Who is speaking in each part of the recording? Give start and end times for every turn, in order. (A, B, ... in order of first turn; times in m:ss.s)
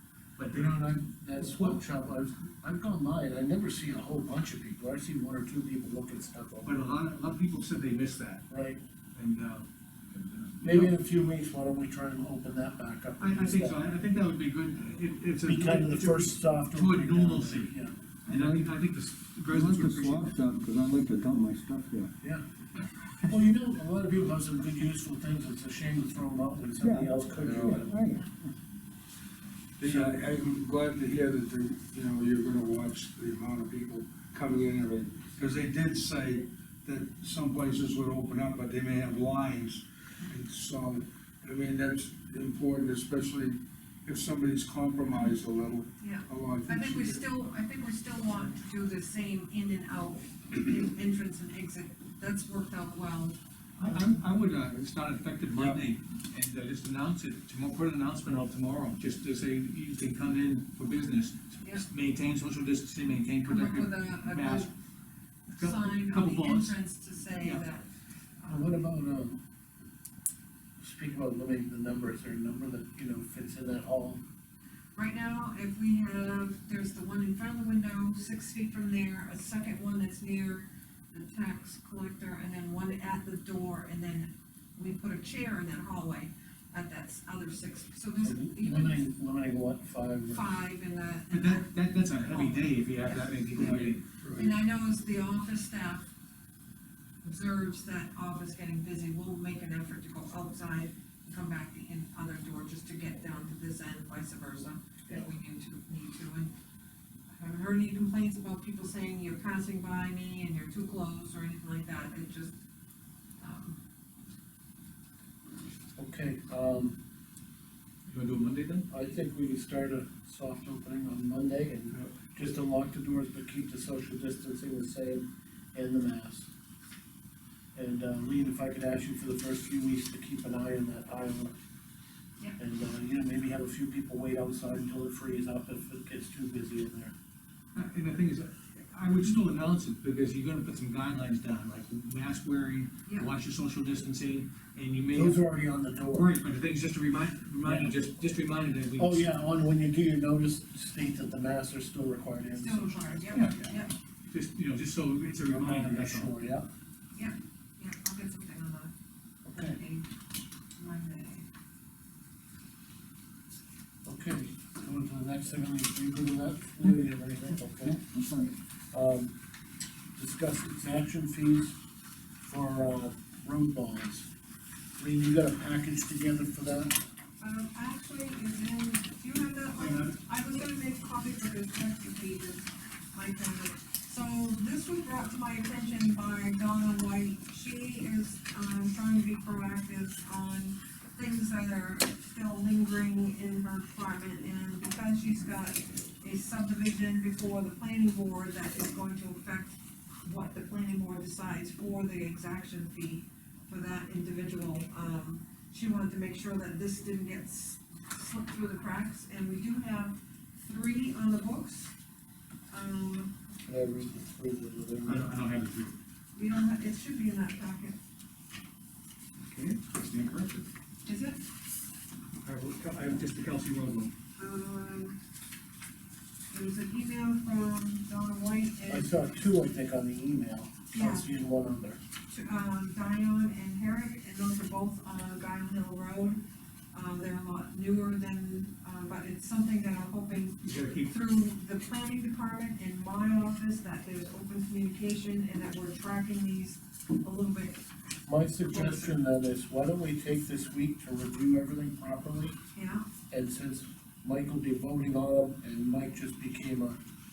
0:00.4-0:01.8 A
0:00.5-0:06.8 B
0:06.6-0:08.4 A
0:08.5-0:08.8 B
0:09.1-0:11.0 A
0:10.6-0:13.8 B
0:13.2-0:17.7 A
0:15.4-0:17.9 B
0:18.2-0:20.3 A
0:18.3-0:18.7 C
0:19.5-0:22.1 C
0:23.2-0:28.0 B
0:26.8-0:28.2 C
0:27.4-0:28.1 D
0:29.8-0:47.2 D
0:29.8-0:30.1 B
0:46.0-0:54.0 E
0:53.8-1:04.7 A
0:55.5-0:55.8 D
1:03.4-1:04.7 E
1:05.5-1:07.8 E
1:05.6-1:06.8 A
1:08.4-1:08.8 E
1:08.5-1:09.4 B
1:10.8-1:14.2 B
1:14.9-1:29.0 E
1:28.2-1:30.4 B
1:30.3-1:33.4 E
1:31.3-1:34.0 A
1:33.5-1:34.5 D
1:34.3-1:36.0 E
1:37.2-1:46.5 E
1:47.3-1:52.5 E
1:53.4-1:53.8 E
1:56.0-1:57.0 B
1:58.1-1:58.8 A
1:58.9-2:06.5 B
2:07.7-2:11.5 B
2:12.6-2:17.1 B
2:17.7-2:25.4 A
2:25.1-2:26.3 B
2:26.1-2:29.3 A
2:27.6-2:27.9 B
2:29.0-2:33.4 B
2:32.5-2:33.9 E
2:33.3-2:33.8 A
2:34.3-2:36.3 A
2:35.5-2:36.7 B
2:37.1-2:38.9 E
2:39.4-2:39.8 B
2:39.5-2:40.1 E
2:40.8-2:41.4 E
2:44.0-2:48.0 B
2:48.1-2:48.4 C
2:48.9-2:49.3 B
2:50.2-2:51.8 B
2:52.4-2:54.3 B
2:55.0-2:57.0 B
2:57.4-3:31.9 E
2:59.8-3:00.1 A
3:32.7-3:33.3 E
3:33.6-3:35.3 B
3:35.0-3:36.0 A
3:36.3-3:38.0 E
3:39.4-3:40.6 A
3:41.0-3:41.4 E
3:42.4-3:44.1 A
3:44.4-3:45.2 E
3:46.5-3:49.3 E
3:48.9-3:52.0 B
3:50.9-3:51.3 E
3:52.3-3:56.4 E
3:56.9-4:07.8 E
4:00.6-4:01.1 A
4:08.2-4:12.6 B
4:08.7-4:09.2 E
4:12.7-4:13.0 E
4:13.3-4:17.0 B